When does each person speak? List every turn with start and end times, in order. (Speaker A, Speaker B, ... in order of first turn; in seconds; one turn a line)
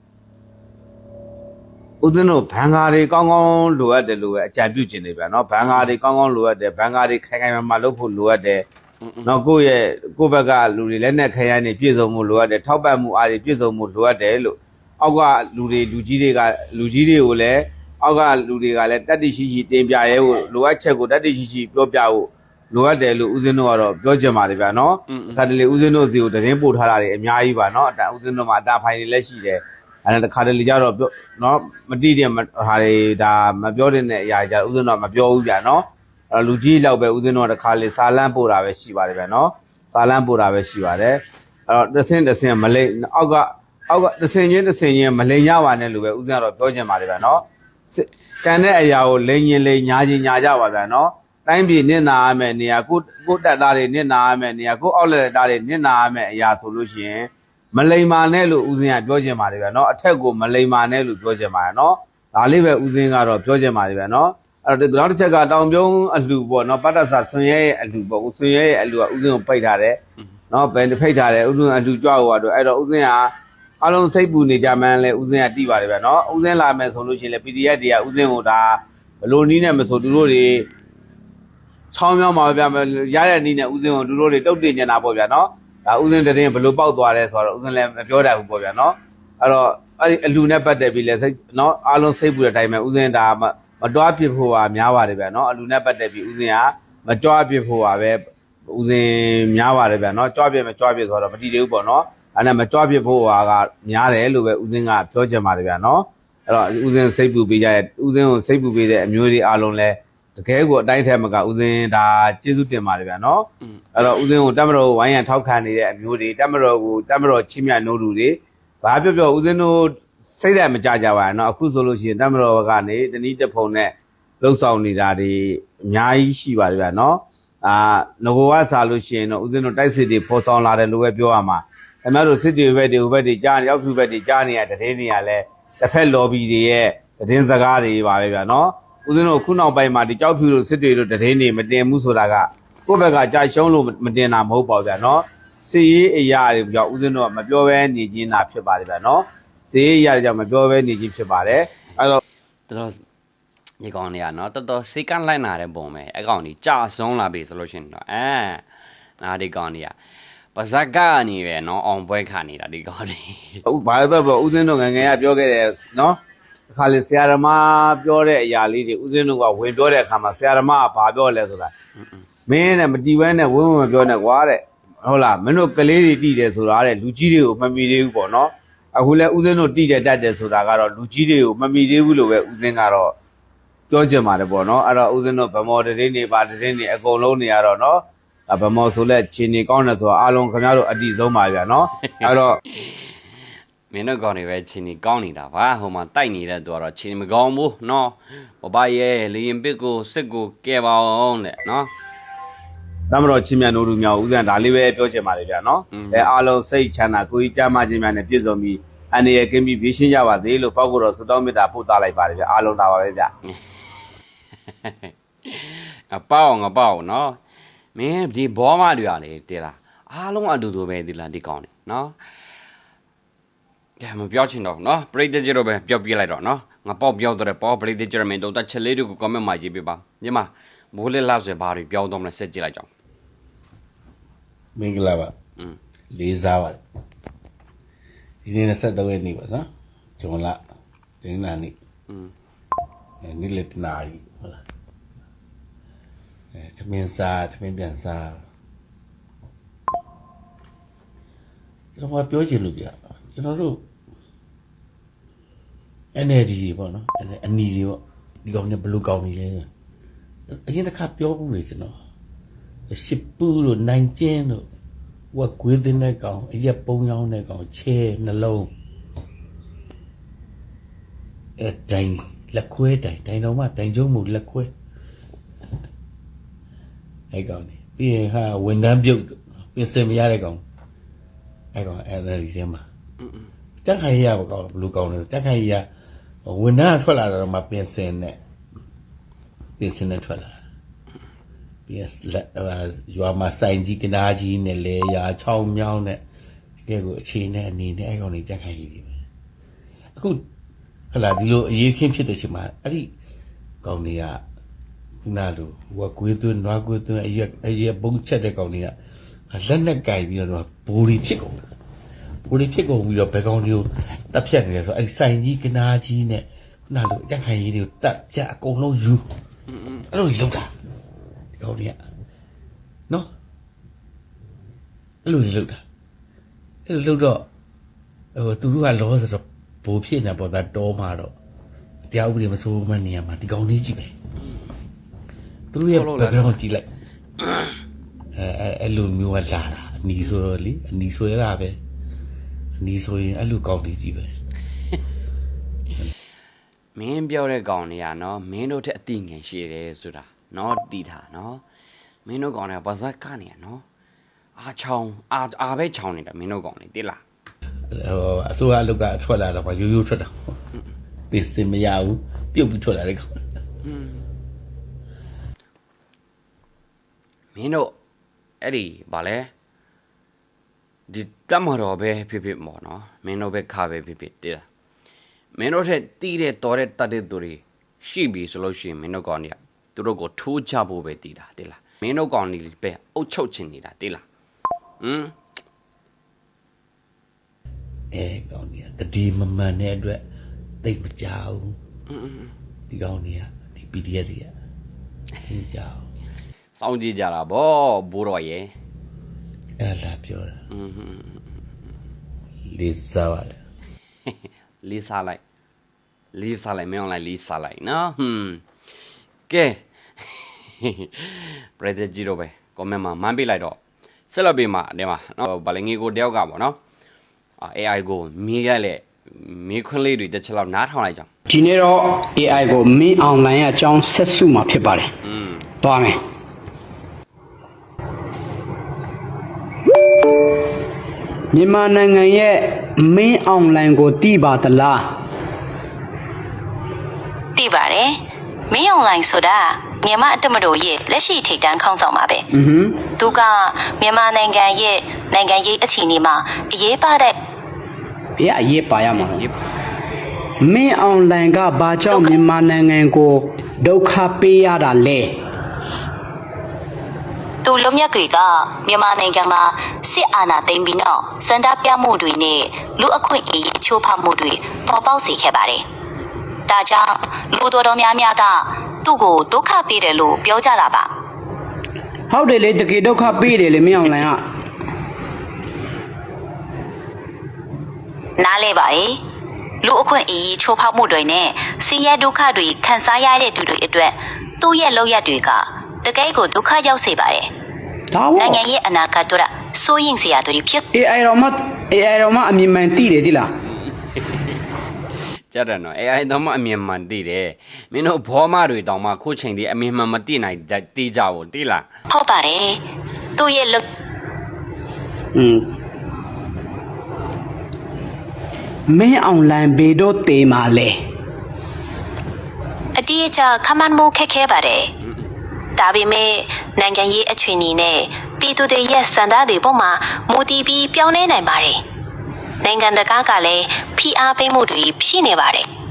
Speaker A: 2.0-8.6
Speaker B: 5.6-5.9
Speaker B: 9.0-9.3
Speaker A: 9.2-70.0
Speaker B: 25.1-25.4
Speaker A: 70.5-80.7
Speaker A: 81.9-152.2
Speaker B: 152.7-153.0
Speaker B: 153.8-158.6
Speaker B: 159.2-159.9
Speaker B: 160.5-163.6
Speaker A: 163.6-166.2
Speaker A: 166.7-171.7
Speaker A: 172.5-183.1
Speaker A: 183.9-192.6
Speaker B: 192.1-193.1
Speaker B: 193.9-201.9
Speaker A: 203.1-213.3
Speaker B: 205.9-206.3
Speaker B: 214.8-217.4
Speaker B: 217.9-222.1
Speaker B: 224.0-232.9
Speaker C: 234.8-235.3
Speaker C: 236.1-236.8
Speaker C: 238.4-240.6
Speaker C: 241.2-241.8
Speaker C: 243.2-244.6
Speaker C: 246.5-248.4
Speaker C: 251.9-253.8
Speaker C: 256.1-259.7
Speaker C: 260.5-261.9
Speaker C: 262.9-264.6
Speaker C: 265.3-268.7
Speaker C: 271.6-274.7
Speaker C: 277.3-280.6
Speaker C: 281.7-282.8
Speaker C: 283.8-285.9
Speaker C: 286.4-288.4
Speaker C: 289.8-290.6
Speaker C: 291.9-296.2
Speaker C: 296.8-299.1
Speaker C: 300.1-300.4
Speaker C: 301.1-303.1
Speaker C: 303.8-304.4
Speaker C: 305.2-308.9
Speaker C: 309.5-311.6
Speaker C: 312.4-319.2
Speaker C: 319.9-320.7
Speaker C: 321.6-322.0
Speaker C: 325.2-325.8
Speaker C: 326.9-327.5
Speaker C: 328.3-331.3
Speaker C: 332.1-334.1
Speaker C: 335.7-336.9
Speaker B: 335.9-336.5
Speaker C: 338.3-341.8
Speaker C: 342.8-344.3
Speaker B: 346.9-351.6
Speaker B: 352.2-353.8
Speaker B: 354.6-357.2
Speaker C: 357.9-360.6
Speaker C: 361.3-363.4
Speaker B: 363.8-364.2
Speaker B: 367.5-367.9
Speaker B: 368.6-369.5
Speaker B: 371.1-374.6
Speaker B: 375.6-384.2
Speaker B: 385.0-385.3
Speaker C: 388.1-390.2
Speaker C: 390.8-391.7
Speaker B: 392.1-392.5
Speaker C: 392.9-394.5
Speaker C: 395.5-396.0
Speaker B: 396.7-398.7
Speaker C: 399.8-400.6
Speaker B: 400.7-401.4
Speaker C: 402.6-403.6
Speaker B: 404.3-405.4
Speaker B: 406.3-408.6
Speaker B: 409.5-413.8
Speaker B: 414.3-416.8
Speaker B: 417.6-421.3
Speaker D: 421.5-425.1
Speaker B: 425.2-425.6
Speaker D: 425.8-426.2
Speaker D: 431.5-435.1
Speaker E: 437.6-442.4
Speaker D: 442.5-443.1
Speaker E: 443.2-447.4
Speaker D: 448.4-449.5
Speaker D: 450.6-455.4
Speaker E: 452.1-452.4
Speaker E: 457.6-465.8
Speaker E: 466.7-471.1
Speaker D: 472.3-474.4
Speaker E: 478.4-479.2
Speaker E: 479.8-487.5
Speaker D: 488.1-488.6
Speaker E: 488.4-490.9
Speaker D: 490.9-493.5
Speaker B: 493.8-494.6
Speaker B: 495.5-501.8
Speaker E: 502.1-502.8
Speaker E: 503.4-503.8
Speaker D: 505.3-505.7
Speaker D: 508.9-510.9
Speaker E: 512.9-514.9
Speaker E: 515.8-521.8
Speaker E: 522.6-525.6